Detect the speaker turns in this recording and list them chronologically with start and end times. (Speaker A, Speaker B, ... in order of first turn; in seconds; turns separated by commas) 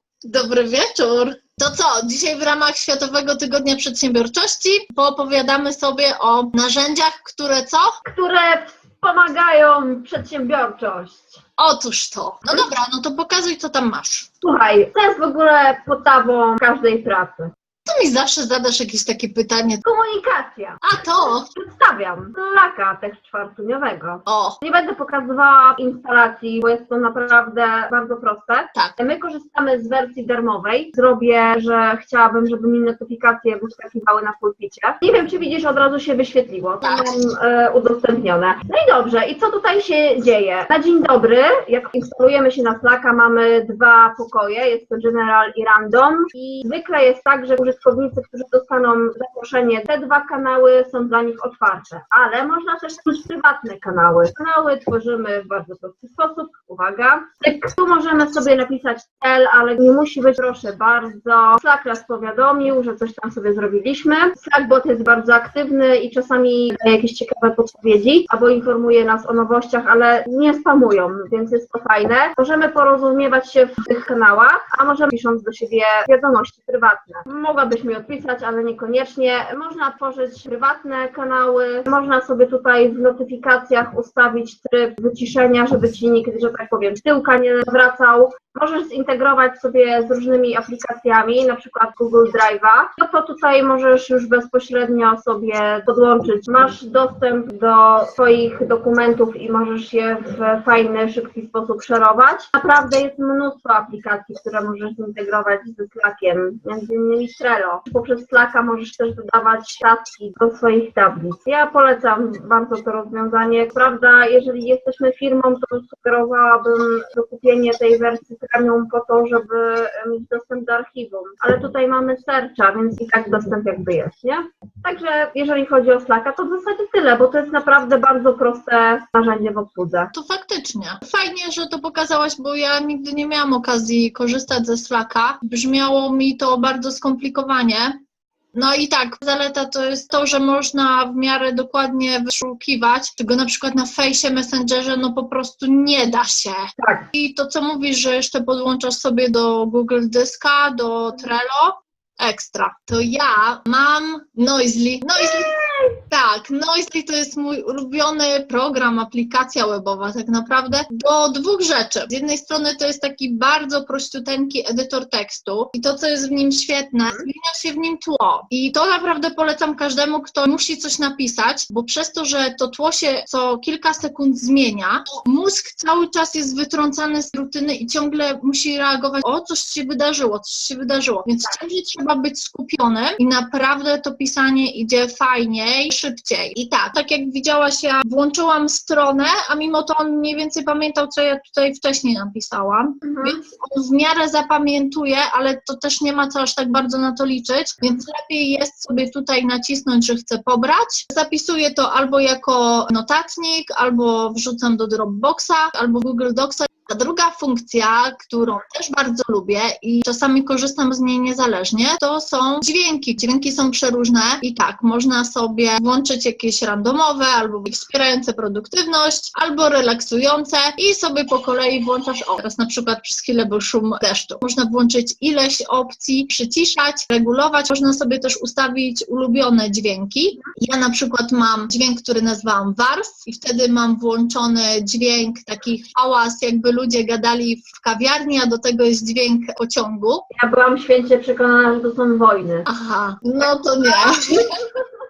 Speaker A: 0.2-8.0, Speaker B: 8.0-11.4, Speaker A: 11.6-14.3, Speaker B: 14.4-17.5, Speaker A: 17.9-19.8, Speaker B: 19.8-20.8, Speaker A: 20.8-21.5, Speaker B: 21.5-130.1, Speaker A: 24.3-24.6, Speaker A: 36.8-37.2, Speaker A: 130.1-137.9, Speaker A: 138.5-240.2, Speaker B: 146.8-147.1, Speaker B: 155.2-156.0, Speaker B: 193.0-193.4, Speaker B: 240.3-242.7, Speaker A: 242.7-244.5